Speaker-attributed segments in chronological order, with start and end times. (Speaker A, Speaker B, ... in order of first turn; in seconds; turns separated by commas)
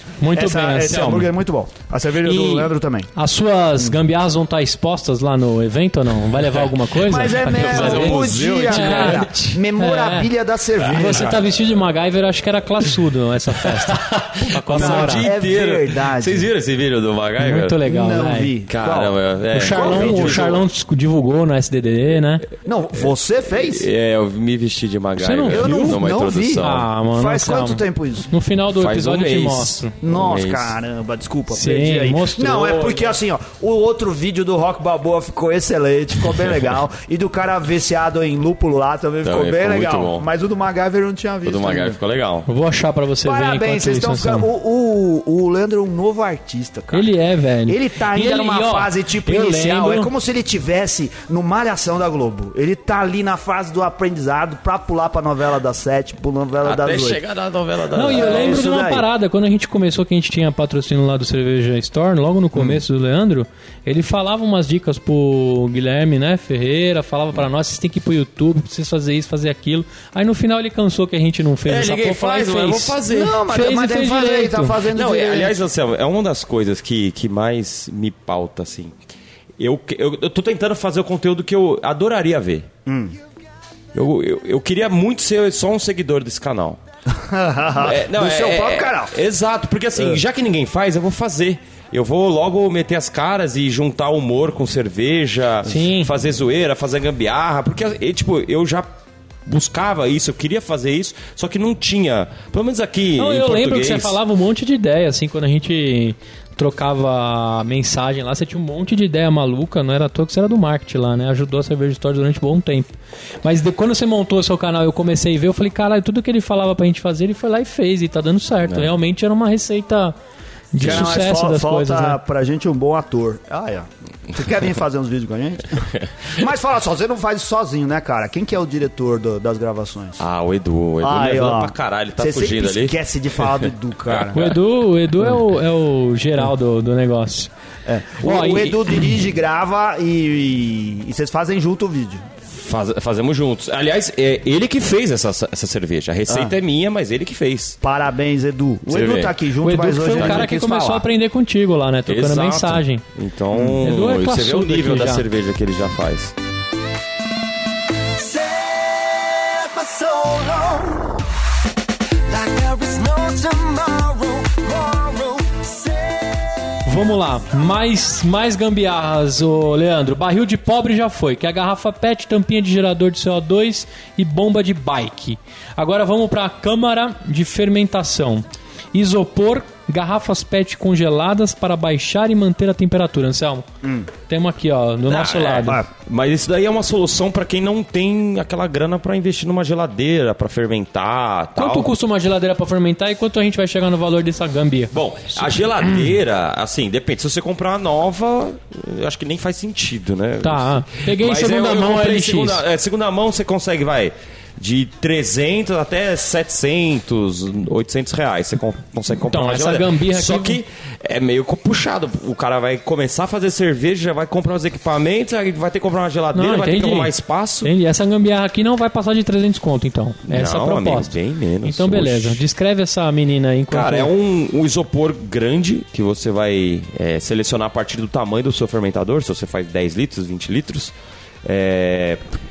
Speaker A: 0.2-1.3, Speaker B: 0.3-3.1, Speaker A: 2.2-10.3, Speaker B: 7.0-11.4, Speaker C: 7.2-9.6, Speaker A: 10.8-15.3, Speaker C: 10.9-11.4, Speaker C: 13.8-17.8, Speaker B: 14.7-16.5, Speaker A: 17.4-18.5, Speaker B: 17.8-20.6, Speaker C: 18.7-20.6, Speaker A: 19.5-22.5, Speaker B: 22.6-23.9, Speaker C: 22.9-26.9, Speaker A: 25.2-26.0, Speaker B: 25.5-28.3, Speaker A: 26.6-29.9, Speaker C: 28.7-30.8, Speaker B: 30.0-42.0, Speaker A: 31.5-33.2, Speaker C: 39.2-40.3, Speaker C: 41.4-42.5, Speaker A: 42.5-44.5, Speaker B: 43.2-47.1, Speaker A: 46.9-50.1, Speaker B: 47.7-57.2, Speaker C: 56.6-58.7, Speaker A: 57.9-74.9, Speaker B: 58.0-59.0, Speaker C: 71.7-73.4, Speaker B: 73.0-75.6, Speaker C: 74.9-78.9, Speaker C: 79.6-82.7, Speaker B: 82.8-83.2, Speaker C: 83.9-86.8, Speaker B: 87.1-89.1, Speaker C: 87.8-98.9, Speaker A: 95.6-96.1, Speaker C: 99.5-104.2, Speaker A: 103.2-112.9, Speaker A: 113.4-120.2, Speaker A: 120.7-122.2, Speaker B: 120.8-130.2, Speaker C: 120.8-121.1, Speaker C: 130.2-134.5, Speaker B: 131.0-134.5, Speaker A: 134.3-137.5, Speaker B: 137.8-142.2, Speaker A: 138.2-139.0, Speaker C: 142.4-147.8, Speaker B: 146.3-146.5, Speaker B: 147.8-151.0, Speaker C: 148.9-149.4, Speaker A: 149.6-153.0, Speaker C: 150.0-150.5, Speaker C: 152.1-156.3, Speaker B: 153.5-153.8, Speaker A: 153.8-155.2, Speaker D: 158.1-161.2, Speaker D: 162.2-167.0, Speaker A: 166.8-183.6, Speaker B: 183.8-184.1, Speaker A: 184.2-185.8, Speaker C: 185.1-191.9, Speaker A: 191.6-194.9, Speaker C: 194.9-217.7, Speaker A: 200.4-202.6, Speaker A: 209.2-210.6, Speaker A: 216.3-224.1, Speaker C: 220.3-222.4, Speaker C: 223.7-232.2